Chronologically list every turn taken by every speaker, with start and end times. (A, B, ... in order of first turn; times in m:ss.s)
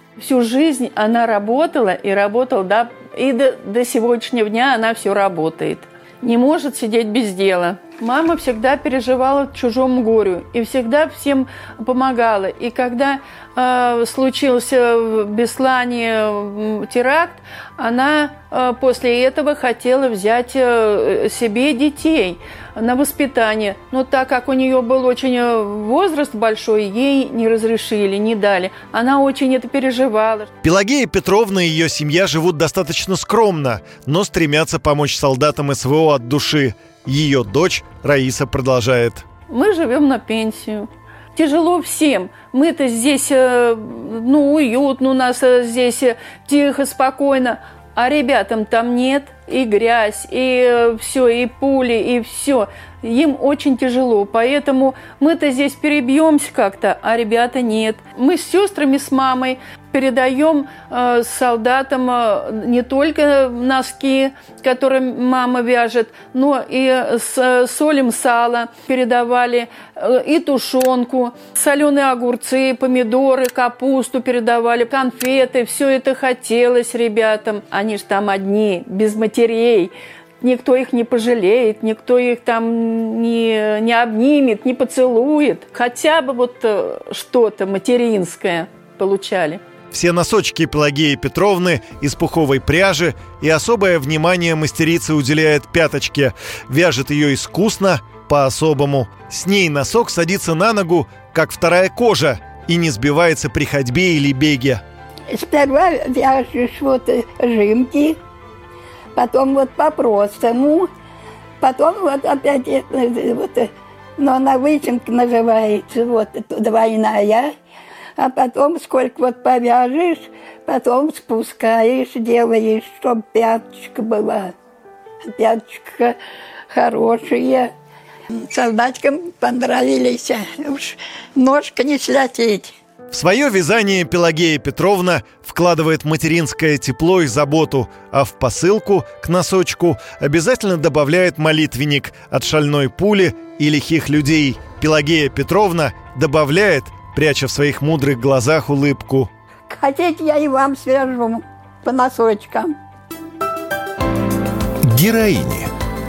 0:00.2-0:30.5 A
0:30.6-0:39.2 B
0:39.5-1:29.6 A
1:29.9-1:44.8 B
1:45.3-1:48.2 C
1:49.2-1:50.9 C
1:51.6-1:57.5 C
1:58.2-2:04.5 C
2:05.3-2:06.2 C
2:06.7-2:07.7 C
2:08.3-2:12.7 C
2:13.1-2:29.3 B
2:29.7-2:32.7 C